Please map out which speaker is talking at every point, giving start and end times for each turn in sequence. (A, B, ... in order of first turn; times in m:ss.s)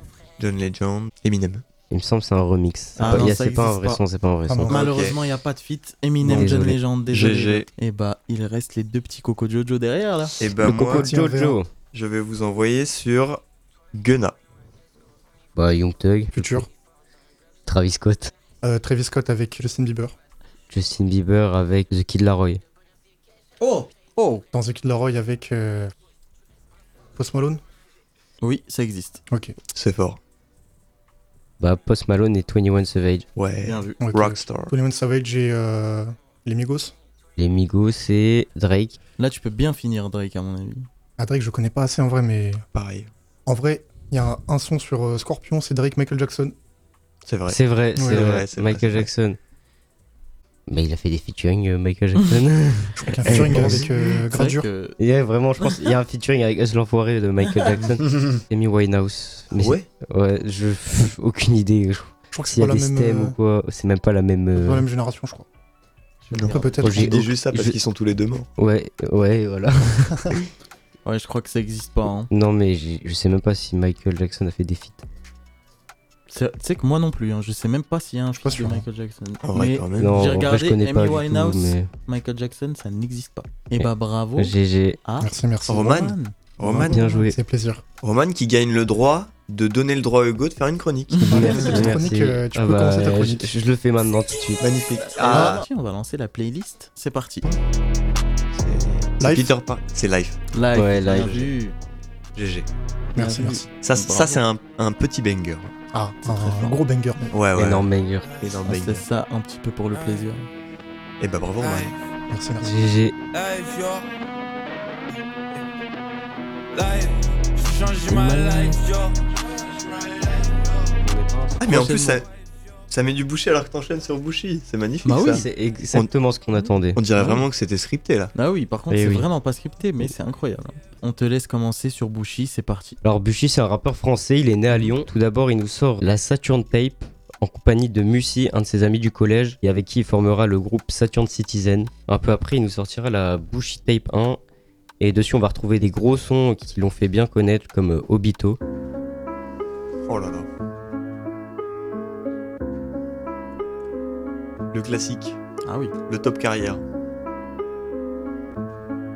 0:00.4-0:01.6 A
0:01.9-0:04.7 B
0:03.0-0:04.0 C
0:04.5-0:04.8 D
0:04.7-0:10.4 C
0:04.7-0:05.2 A
0:06.2-0:06.5 A
0:06.3-0:06.8 B
0:07.1-0:07.7 A
0:10.4-0:11.1 A
0:10.6-0:11.7 B
0:10.7-0:11.6 D
0:11.9-0:13.4 A
0:13.9-0:14.4 A
0:15.6-0:16.6 B
0:16.3-0:16.7 D
0:17.6-0:18.3 B
0:18.6-0:20.1 D
0:20.7-0:22.6 B
0:23.6-0:24.4 C
0:24.5-0:25.9 D
0:27.2-0:27.6 D
0:28.4-0:29.2 C
0:29.3-0:29.5 D
0:29.7-0:30.2 A
0:31.6-0:33.3 B
0:33.4-0:34.7 A
0:33.6-0:34.0 C
0:34.0-0:36.9 D
0:37.4-0:39.0 B
0:39.2-0:40.9 C
0:41.2-0:42.6 D
0:42.7-0:43.1 A
0:43.4-0:46.5 D
0:47.2-0:49.1 A
0:47.5-0:49.4 B
0:48.0-0:48.3 D
0:50.7-0:53.8 B
0:53.0-0:54.7 D
0:53.3-0:55.0 C
0:55.0-1:04.8 B
0:57.8-0:58.4 A
0:59.5-0:59.9 A
1:02.3-1:03.3 D
1:04.6-1:05.5 D
1:06.2-1:06.9 C
1:06.3-1:08.5 A
1:06.5-1:07.2 D
1:06.8-1:07.8 B
1:08.6-1:10.4 B
1:11.0-1:12.3 C
1:12.3-1:15.0 B
1:16.3-1:27.0 C
1:18.4-1:18.8 D
1:19.4-1:20.2 A
1:20.0-1:21.9 B
1:23.8-1:25.0 B
1:25.2-1:26.0 D
1:25.7-1:27.0 A
1:26.6-1:27.8 D
1:26.8-1:27.4 B
1:28.0-1:31.7 A
1:31.1-1:31.9 C
1:31.2-1:34.6 B
1:31.2-1:33.5 D
1:34.6-1:35.6 A
1:35.0-1:37.5 C
1:35.3-1:35.6 D
1:38.5-1:40.4 A
1:39.2-1:39.5 D
1:40.5-1:41.8 C
1:40.7-1:41.3 B
1:41.0-1:41.5 A
1:42.3-1:42.7 A
1:43.2-1:43.7 D
1:43.2-1:44.4 C
1:43.8-1:45.7 A
1:45.9-1:47.3 D
1:46.2-1:46.8 C
1:47.3-1:47.9 A
1:47.5-1:48.3 B
1:48.4-1:49.0 A
1:48.6-1:50.5 C
1:49.9-1:50.2 E
1:51.2-1:51.9 A
1:51.6-1:51.9 E
1:52.3-1:52.7 D
1:52.6-1:53.2 B
1:53.3-1:54.1 E
1:56.7-2:00.9 E
1:58.1-1:58.8 C
2:01.0-2:01.8 B
2:01.6-2:02.2 A
2:01.6-2:02.2 C
2:02.9-2:06.1 A
2:05.0-2:05.5 C
2:05.2-2:07.0 B
2:06.9-2:08.3 A
2:07.1-2:07.4 C
2:08.3-2:13.0 C
2:08.9-2:09.3 B
2:13.0-2:24.4 B
2:25.0-2:28.6 B
2:30.1-2:30.5 A
2:34.7-2:35.4 A
2:35.6-2:35.9 C
2:36.1-2:36.8 A